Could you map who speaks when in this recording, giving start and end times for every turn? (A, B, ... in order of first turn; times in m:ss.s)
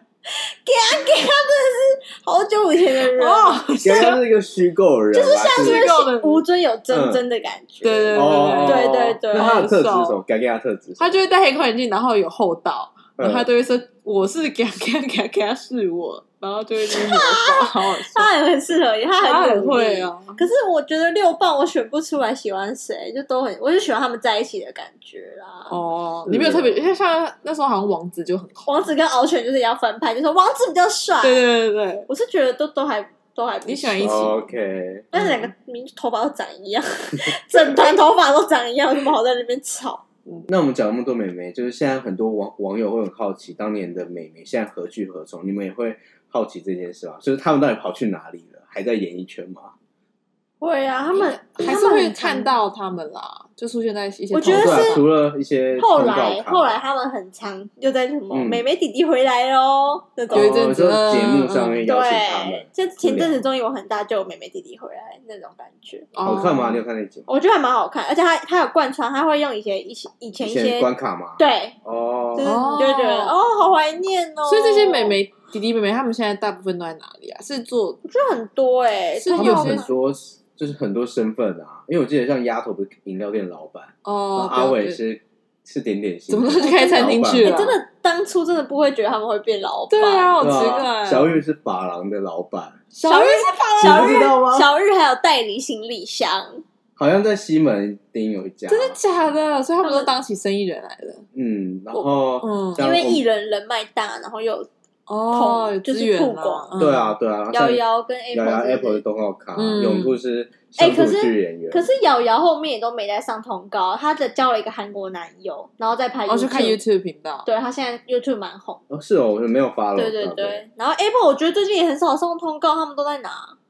0:00.3-0:04.1 A
0:03.1-0:04.2 B
0:03.8-0:05.8 C
0:05.1-0:09.6 A
0:05.5-0:06.4 B
0:06.9-0:07.2 C
0:07.8-0:10.2 B
0:08.1-0:11.2 C
0:11.0-0:18.3 B
0:13.2-0:13.5 C
0:16.9-0:25.7 A
0:19.2-0:20.4 B
0:25.7-0:28.9 B
0:26.3-0:26.8 C
0:28.6-0:31.4 A
0:31.2-0:32.1 B
0:32.1-0:34.3 A
0:33.6-0:34.5 B
0:34.0-0:35.1 C
0:35.1-0:40.0 A
0:35.1-0:35.5 B
0:40.5-0:49.7 C
0:50.6-0:52.5 A
0:51.1-0:55.0 B
0:54.3-0:55.0 A
0:54.5-0:56.8 C
0:55.8-1:00.6 A
0:58.3-0:58.6 C
1:00.3-1:03.4 C
1:00.3-1:01.9 B
1:01.9-1:06.1 A
1:06.1-1:06.8 B
1:06.2-1:07.3 C
1:07.3-1:11.8 A
1:10.4-1:12.6 C
1:12.4-1:15.2 A
1:12.4-1:13.3 B
1:14.4-1:18.0 B
1:18.0-1:19.9 A
1:19.2-1:19.9 B
1:19.4-1:27.6 C
1:24.0-1:25.0 B
1:26.3-1:27.8 B
1:27.4-1:30.7 A
1:29.9-1:31.4 B
1:30.4-1:32.8 C
1:32.9-1:34.3 B
1:33.0-1:36.6 A
1:33.8-1:34.7 C
1:37.0-1:39.0 C
1:38.7-1:41.3 B
1:39.8-1:40.1 A
1:41.4-1:43.2 C
1:41.9-1:42.8 B
1:42.8-1:44.7 A
1:45.1-1:47.2 B
1:45.3-1:46.7 A
1:46.8-1:47.8 C
1:47.5-1:49.0 A
1:48.3-1:51.9 C
1:49.6-1:50.2 B
1:50.8-1:56.8 A
1:56.3-1:57.4 B
1:57.4-1:58.8 A
1:58.9-2:00.6 C
2:00.0-2:03.6 A